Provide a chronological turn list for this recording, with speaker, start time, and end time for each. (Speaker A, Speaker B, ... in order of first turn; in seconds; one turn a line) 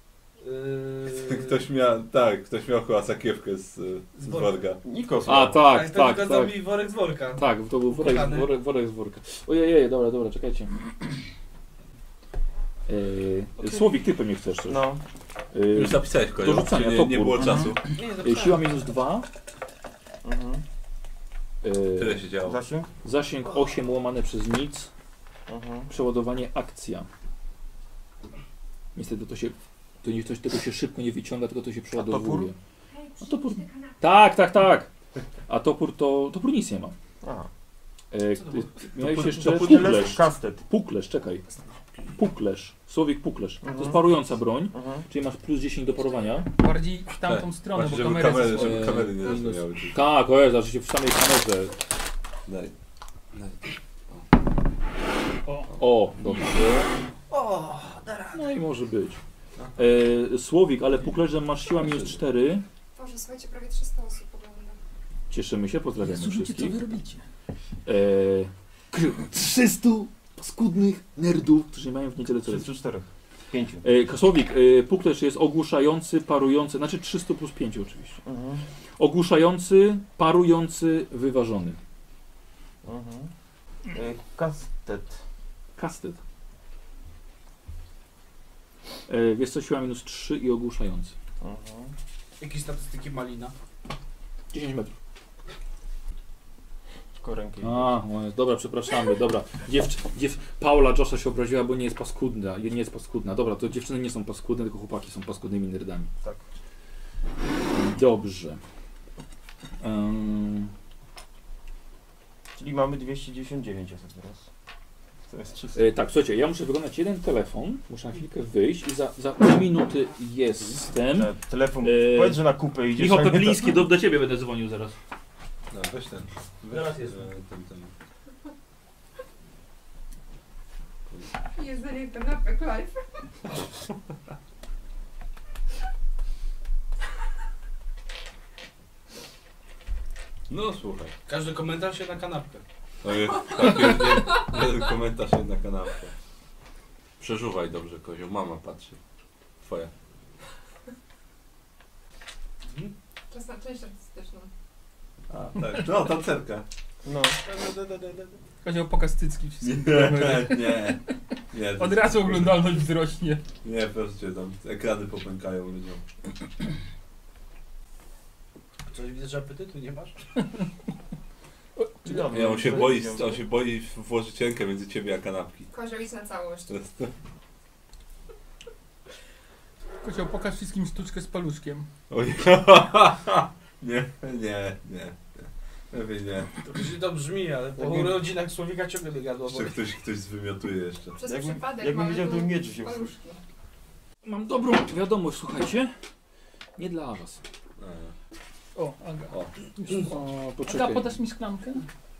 Speaker A: 0.4-1.6
Speaker B: 1.1-4.8
Speaker A: 4.2-4.6
Speaker C: 4.8-5.6
Speaker D: 5.3-6.6
Speaker A: 5.6-8.5
Speaker D: 7.4-10.7
Speaker D: 12.9-14.8
Speaker C: 14.7-15.0
Speaker D: 15.5-19.3
Speaker B: 15.7-17.8
Speaker A: 17.9-18.8
Speaker C: 20.2-20.6
Speaker D: 21.6-22.2
Speaker B: 22.0-22.6
Speaker C: 22.4-22.9
Speaker D: 23.0-24.9
Speaker C: 25.5-25.9
Speaker D: 25.9-27.1
Speaker D: 28.9-32.6
Speaker C: 31.9-32.5
Speaker E: 32.9-34.1
Speaker D: 33.2-34.9
Speaker D: 35.5-36.9
Speaker C: 37.2-37.5
Speaker D: 38.1-41.4
Speaker A: 38.4-38.7
Speaker B: 39.0-40.2
Speaker C: 39.1-40.6
Speaker D: 42.1-46.5
Speaker C: 43.6-44.2
Speaker C: 44.7-45.0
Speaker E: 46.0-46.4
Speaker F: 46.6-49.0
Speaker B: 47.2-50.0
Speaker D: 48.5-51.8
Speaker B: 52.5-52.7
Speaker B: 53.3-54.3
Speaker F: 55.5-55.7
Speaker D: 55.8-56.9
Speaker C: 57.3-58.3
Speaker D: 58.3-59.2
Speaker D: 59.8-62.6
Speaker B: 61.8-62.2
Speaker E: 63.0-64.8
Speaker D: 65.3-66.8
Speaker F: 66.0-67.2
Speaker D: 67.9-72.7
Speaker C: 72.5-73.8
Speaker D: 73.8-78.2
Speaker C: 78.2-78.6
Speaker D: 79.0-81.8
Speaker C: 82.8-83.3
Speaker C: 83.9-85.2
Speaker D: 85.8-86.2
Speaker D: 89.1-91.1
Speaker C: 91.4-91.9
Speaker A: 92.4-93.5
Speaker D: 94.5-95.0
Speaker C: 97.2-97.9
Speaker D: 97.6-106.1
Speaker D: 107.7-108.6
Speaker D: 109.8-110.7
Speaker C: 112.5-114.5
Speaker C: 115.3-115.9
Speaker D: 115.7-125.0
Speaker C: 121.1-123.8
Speaker B: 125.7-127.9
Speaker D: 126.7-127.2
Speaker E: 131.6-133.0
Speaker B: 140.5-141.1
Speaker A: 141.3-142.6
Speaker B: 143.0-146.1
Speaker B: 147.2-149.0
Speaker B: 149.6-149.9
Speaker A: 152.7-152.9
Speaker E: 153.3-154.5
Speaker B: 155.3-156.7
Speaker C: 157.1-157.4
Speaker A: 157.4-158.4
Speaker F: 158.6-161.0
Speaker B: 159.6-161.0
Speaker B: 161.5-162.7
Speaker F: 161.8-163.4
Speaker B: 163.6-166.0
Speaker A: 168.9-170.2
Speaker C: 172.1-173.4
Speaker B: 172.1-175.7
Speaker E: 175.7-176.8
Speaker B: 176.7-177.1
Speaker F: 180.0-181.9
Speaker B: 182.1-186.6
Speaker A: 186.7-189.8
Speaker B: 189.5-191.2
Speaker E: 191.2-193.4
Speaker C: 191.2-193.1
Speaker D: 194.2-195.9
Speaker D: 196.8-197.4
Speaker B: 197.8-198.1
Speaker F: 198.8-199.3
Speaker D: 199.9-201.1
Speaker F: 200.1-201.8